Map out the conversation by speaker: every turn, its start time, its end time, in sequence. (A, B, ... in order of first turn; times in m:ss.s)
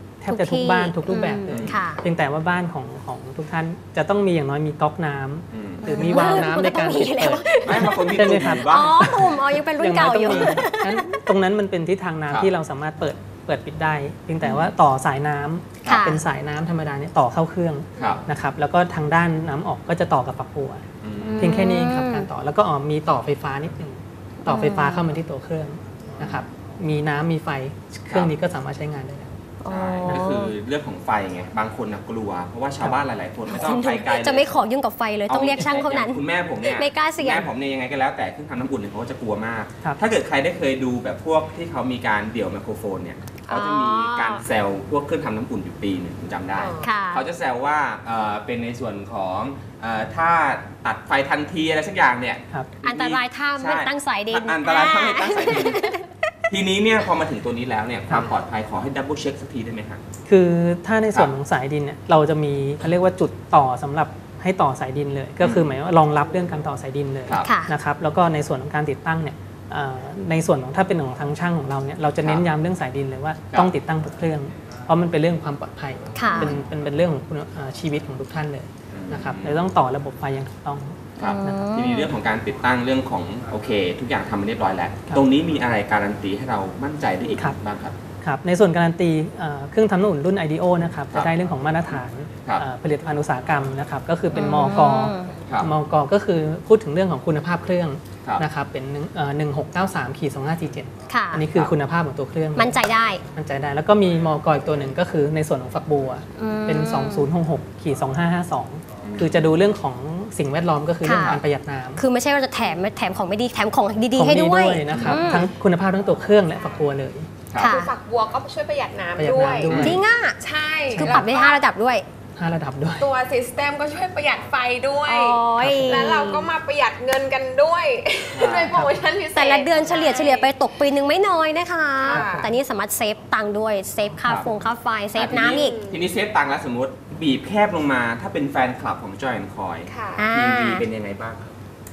0:00.2-0:20.8 A
0:00.3-0:02.0 B
0:01.5-0:01.9 C
0:05.5-0:05.9 C
0:05.8-0:11.2 B
0:07.6-0:09.2 C
0:10.3-0:10.6 C
0:14.4-0:14.7 C
0:15.8-0:16.1 C
0:15.9-0:16.2 B
0:18.0-0:18.2 C
0:18.0-0:18.2 D
0:21.0-0:21.6 C
0:21.2-0:22.3 B
0:21.4-0:29.4 A
0:24.4-0:25.0 B
0:29.6-0:30.5 B
0:29.7-0:34.5 C
0:33.5-0:37.5 B
0:35.3-0:55.9 C
0:43.5-0:44.4 B
0:46.6-0:46.9 D
0:46.8-0:47.2 B
0:52.8-0:56.3 B
0:56.5-1:00.0 C
1:00.3-1:21.7 A
1:05.4-1:05.7 C
1:07.4-1:07.7 B
1:16.2-1:16.6 B
1:18.9-1:19.6 C
1:21.2-1:28.0 C
1:21.2-1:22.1 B
1:28.2-1:42.8 A
1:34.3-1:35.3 B
1:41.1-1:41.5 B
1:42.6-1:43.2 B
1:43.3-1:52.0 A
1:46.4-1:47.3 B
1:49.0-1:49.5 C
1:51.0-1:51.4 B
1:52.0-1:55.5 B
1:54.2-1:57.3 A
1:54.9-1:55.2 C
1:56.5-1:57.0 D
1:57.6-1:59.9 D
1:57.6-1:57.9 B
1:59.2-2:00.0 A
1:59.7-2:00.0 C
1:59.7-2:00.4 B
2:00.4-2:01.6 D
2:01.0-2:01.3 A
2:01.0-2:02.0 B
2:02.4-2:03.1 A
2:03.0-2:10.5 D
2:05.1-2:06.5 B
2:05.6-2:06.1 A
2:08.3-2:08.9 C
2:09.3-2:15.8 B
2:12.0-2:12.6 D
2:15.1-2:21.6 C
2:15.3-2:16.1 D
2:19.9-2:20.3 D
2:20.2-2:20.8 B